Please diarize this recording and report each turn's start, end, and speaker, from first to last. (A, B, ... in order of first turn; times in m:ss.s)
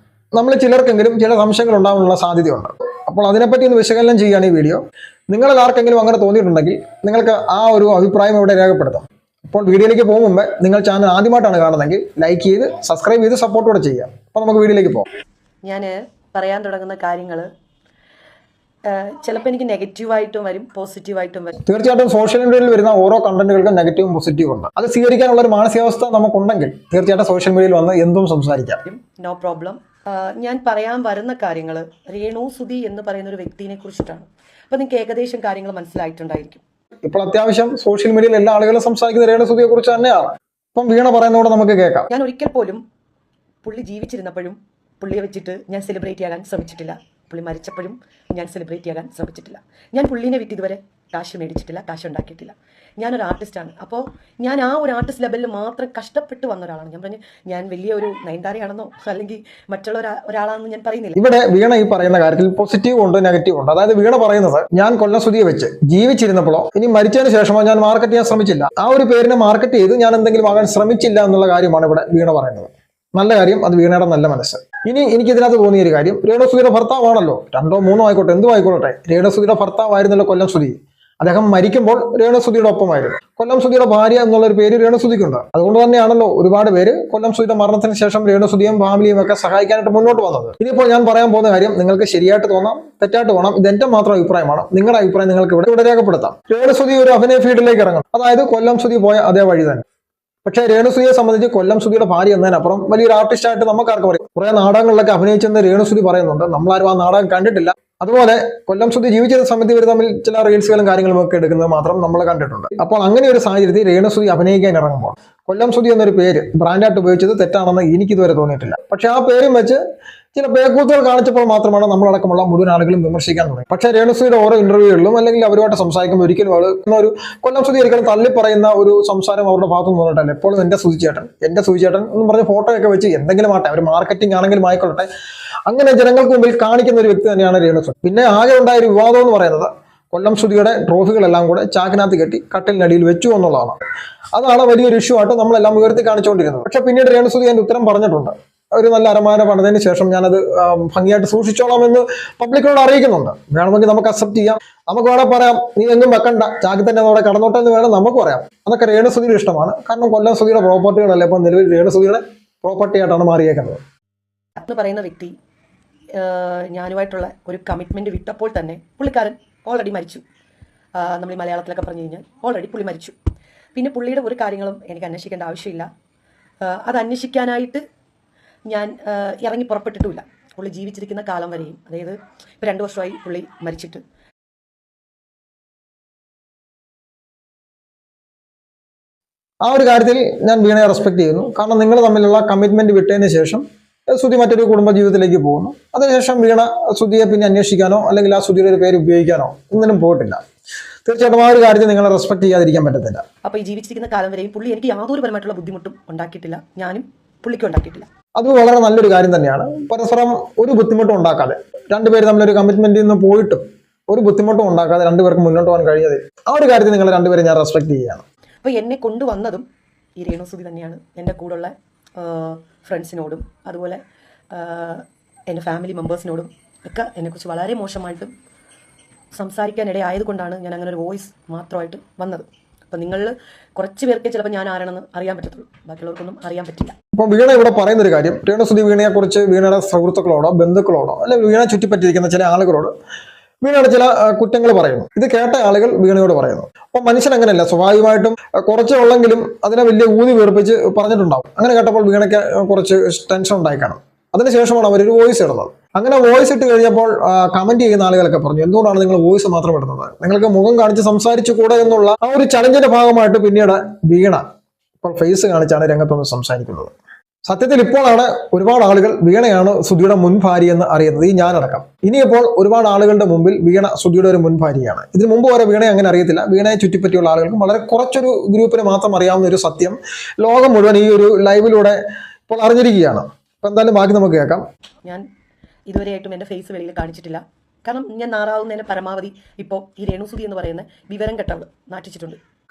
0:00.3-0:15.1 A
0:15.6-0:17.5 B
0:18.8-0:21.6 B
0:21.6-0:28.8 A
0:28.8-0:36.6 B
0:37.0-0:42.1 A
0:42.1-0:42.8 B
0:43.6-1:01.2 B
1:01.1-1:39.8 A
1:40.4-1:59.8 A
2:00.3-2:15.1 A
2:15.7-2:23.8 A
2:24.3-2:43.8 A
2:44.6-2:45.3 B
2:46.1-2:50.2 B
2:50.9-2:53.2 B
2:53.7-2:55.9 B
2:56.6-2:57.8 B
2:58.7-3:04.0 B
3:09.6-3:20.4 A
3:21.0-3:23.2 A
3:23.4-3:28.1 B
3:28.4-3:38.2 A
3:38.6-3:39.6 B
3:40.2-3:44.0 B
3:44.5-3:48.3 B
3:49.3-3:56.9 B
3:57.1-4:02.9 A
4:03.6-4:24.4 A
4:25.0-4:26.9 A
4:27.4-4:44.6 A
4:45.9-4:52.4 B